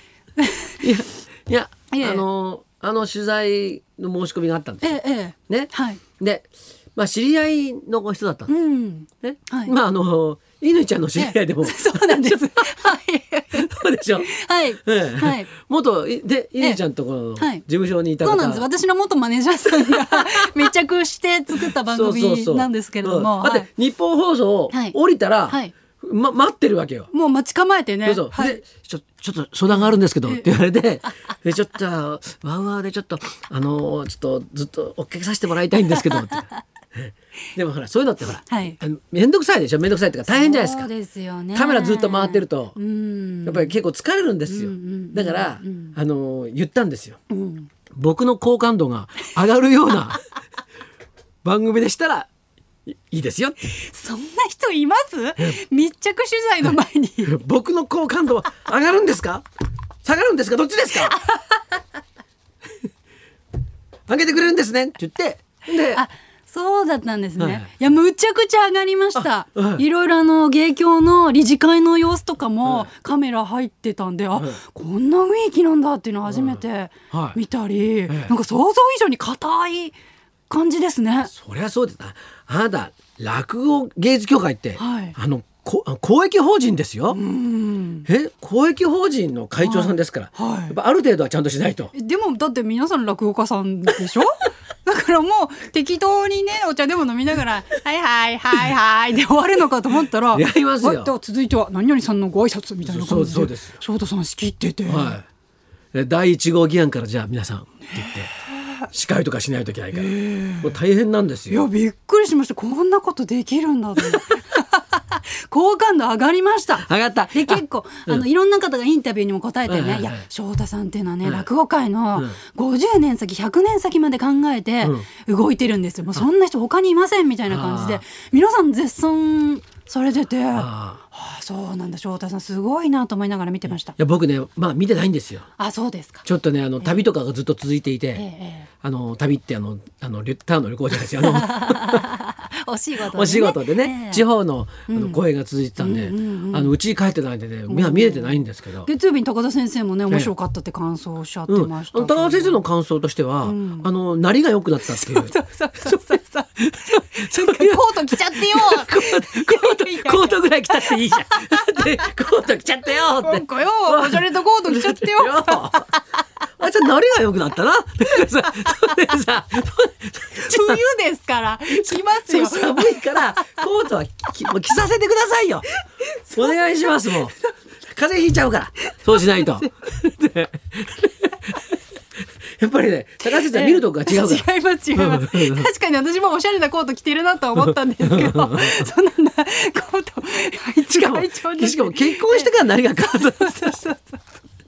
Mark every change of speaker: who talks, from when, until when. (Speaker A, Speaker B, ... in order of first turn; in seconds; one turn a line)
Speaker A: 0.4-0.7
Speaker B: 0.8-5.0
Speaker A: 1.9-2.2
Speaker A: 4.8-6.0
Speaker B: 5.5-8.5
Speaker A: 8.5-9.7
Speaker B: 9.2-12.7
Speaker A: 11.2-13.7
Speaker B: 13.6-14.3
Speaker A: 14.3-15.5
Speaker B: 14.8-18.7
Speaker A: 17.4-17.6
Speaker A: 18.2-23.7
Speaker B: 21.6-27.1
Speaker A: 24.7-25.0
Speaker A: 25.5-25.7
Speaker A: 27.1-28.6
Speaker B: 28.1-40.9
Speaker A: 29.8-30.5
Speaker A: 38.5-38.8
Speaker A: 40.3-43.8
Speaker B: 41.5-42.8
Speaker B: 43.5-47.2
Speaker A: 44.5-46.0
Speaker A: 47.3-47.7
Speaker B: 48.0-50.2
Speaker B: 51.4-52.3
Speaker B: 52.9-53.6
Speaker A: 53.7-57.3
Speaker B: 57.2-59.5
Speaker B: 60.0-61.2
Speaker A: 61.0-61.8
Speaker B: 64.1-66.0
Speaker A: 65.9-80.0
Speaker B: 67.4-67.7
Speaker B: 69.2-69.8
Speaker B: 72.6-72.9
Speaker B: 74.3-74.6
Speaker B: 76.3-77.4
Speaker B: 78.1-78.3
Speaker A: 80.5-81.3
Speaker B: 81.3-87.2
Speaker A: 84.8-85.2
Speaker A: 87.1-88.1
Speaker B: 88.1-91.9
Speaker A: 89.6-90.8
Speaker A: 91.9-105.2
Speaker B: 100.3-101.1
Speaker B: 102.8-103.8
Speaker B: 104.9-105.2
Speaker B: 105.9-108.3
Speaker A: 107.9-108.8
Speaker B: 108.9-111.7
Speaker A: 109.9-110.8
Speaker A: 111.5-133.9
Speaker B: 116.8-118.3
Speaker B: 119.7-120.3
Speaker B: 127.5-128.0
Speaker B: 130.5-131.0
Speaker B: 133.7-135.5
Speaker A: 135.6-136.2
Speaker B: 136.2-138.2
Speaker A: 138.2-138.7
Speaker B: 138.8-142.0
Speaker A: 141.2-144.2
Speaker B: 143.1-148.9
Speaker A: 144.9-145.2
Speaker A: 145.8-146.7
Speaker A: 147.7-152.6
Speaker B: 151.5-165.9
Speaker A: 153.4-153.9
Speaker A: 154.9-162.1
Speaker A: 162.9-166.0
Speaker B: 166.6-170.8
Speaker A: 168.7-169.0
Speaker A: 170.4-173.6
Speaker B: 171.7-175.7
Speaker A: 176.0-177.2
Speaker B: 176.3-177.4
Speaker B: 177.9-181.3
Speaker A: 178.9-179.9
Speaker B: 182.6-185.7
Speaker A: 183.3-194.2
Speaker B: 187.6-188.8
Speaker B: 190.9-193.7